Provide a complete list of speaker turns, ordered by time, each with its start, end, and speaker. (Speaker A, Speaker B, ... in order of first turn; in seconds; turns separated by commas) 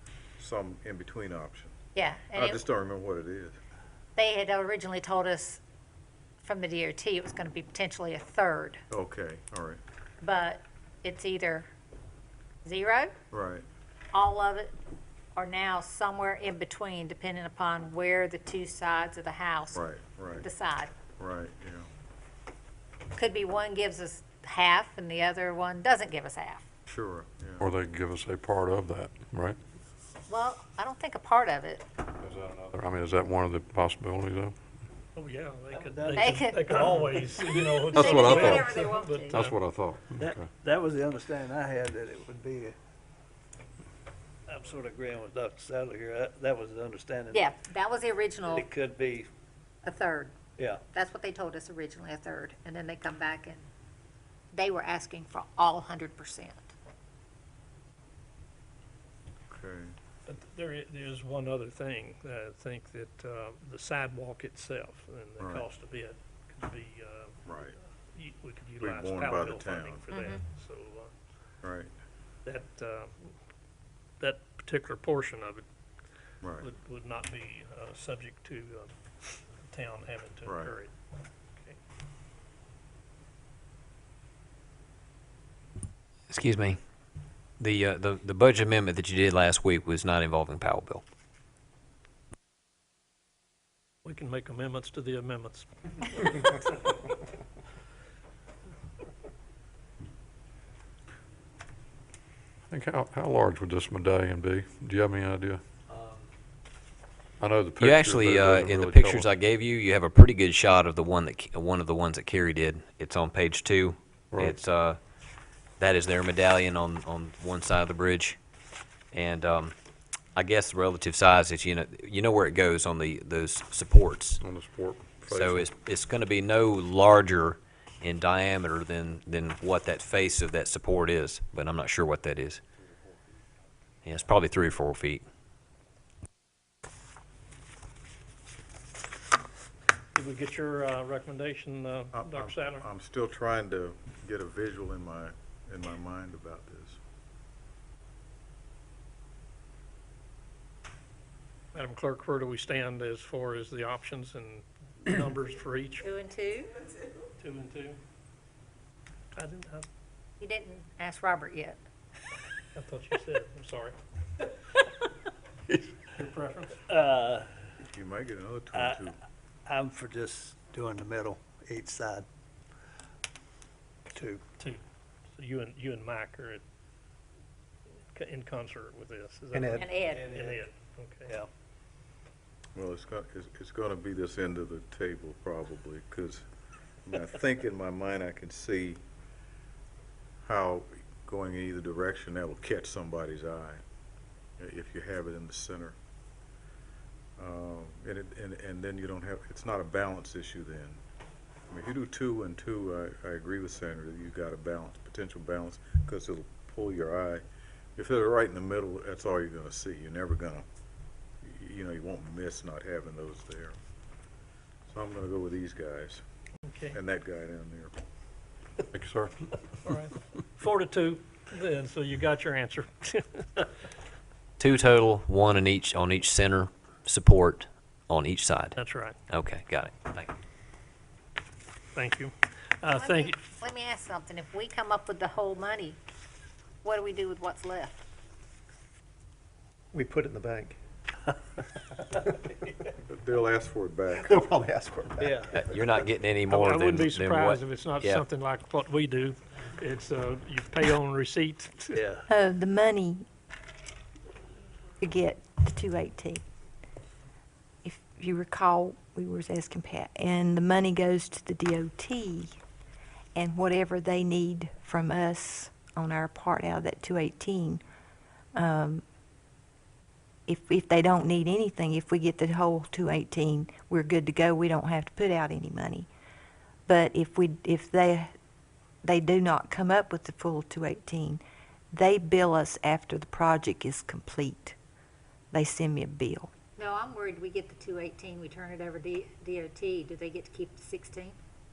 Speaker A: 0.4-1.7, Speaker B: 1.9-2.6, Speaker A: 2.4-3.6, Speaker B: 4.2-5.6, Speaker B: 6.4-8.8, Speaker A: 8.9-9.8, Speaker B: 10.2-11.7, Speaker B: 12.7-13.1, Speaker A: 13.3-13.7, Speaker B: 14.1-14.8, Speaker B: 15.3-19.8, Speaker A: 19.8-20.5, Speaker B: 20.4-20.9, Speaker A: 21.2-21.9, Speaker B: 23.1-26.6, Speaker A: 26.9-27.6, Speaker C: 27.6-29.6, Speaker B: 30.3-31.9, Speaker C: 32.2-34.5, Speaker D: 35.1-39.6, Speaker E: 35.7-36.2, Speaker B: 36.1-37.3, Speaker B: 37.9-39.4, Speaker C: 37.9-40.5, Speaker E: 40.2-42.8, Speaker E: 44.5-47.4, Speaker B: 47.3-48.7, Speaker E: 48.5-49.3, Speaker B: 49.8-50.4, Speaker B: 50.9-53.7, Speaker B: 54.5-56.7, Speaker A: 59.5-59.9, Speaker D: 60.3-67.4, Speaker A: 65.4-65.7, Speaker A: 67.5-67.8, Speaker D: 68.1-71.1, Speaker A: 68.8-70.1, Speaker B: 70.1-70.4, Speaker A: 71.6-71.9, Speaker D: 72.5-73.3, Speaker D: 74.2-75.6, Speaker A: 76.4-76.7, Speaker D: 76.6-80.9, Speaker A: 80.5-80.8, Speaker F: 86.3-86.8, Speaker F: 87.6-91.0, Speaker D: 94.0-96.6, Speaker C: 102.7-105.6, Speaker C: 107.4-109.3, Speaker F: 107.8-115.0, Speaker C: 114.3-114.6, Speaker F: 115.8-118.4, Speaker F: 119.1-119.8, Speaker F: 120.3-124.4, Speaker C: 124.4-125.7, Speaker F: 125.3-132.6, Speaker F: 134.0-135.2, Speaker D: 140.2-142.9, Speaker A: 142.1-147.0, Speaker D: 151.7-156.1, Speaker B: 156.0-156.7, Speaker D: 157.4-158.0, Speaker D: 159.3-159.9, Speaker B: 160.4-161.8, Speaker D: 162.8-164.0, Speaker D: 166.0-167.0, Speaker E: 167.0-167.5, Speaker A: 167.8-169.2, Speaker E: 168.7-169.0, Speaker E: 169.7-172.2, Speaker E: 174.1-174.4, Speaker D: 175.4-176.6, Speaker D: 178.1-181.4, Speaker G: 179.5-179.9, Speaker B: 179.8-180.3, Speaker E: 180.2-180.6, Speaker A: 182.8-186.5, Speaker A: 187.1-189.0, Speaker A: 190.4-193.8, Speaker A: 194.6-196.0, Speaker A: 197.4-201.0, Speaker A: 201.7-207.4, Speaker A: 208.0-210.7, Speaker A: 211.4-213.8, Speaker A: 214.9-216.2, Speaker D: 216.6-217.0, Speaker A: 216.9-217.9, Speaker C: 218.9-219.5, Speaker D: 219.8-223.7, Speaker F: 224.6-230.3, Speaker D: 228.8-229.2, Speaker D: 231.9-233.4, Speaker B: 232.9-236.0, Speaker B: 236.8-238.1, Speaker G: 239.9-240.8, Speaker G: 242.1-242.6, Speaker A: 243.1-244.4, Speaker G: 244.1-245.8, Speaker F: 245.5-248.2, Speaker D: 246.5-252.1, Speaker E: 251.9-252.2, Speaker H: 252.3-253.3, Speaker H: 255.0-256.4, Speaker H: 257.8-262.5, Speaker H: 263.4-267.8, Speaker H: 268.6-269.0, Speaker H: 270.5-276.1, Speaker H: 276.9-278.3, Speaker H: 279.0-281.4, Speaker H: 281.9-284.8, Speaker H: 285.5-286.5, Speaker B: 286.8-291.4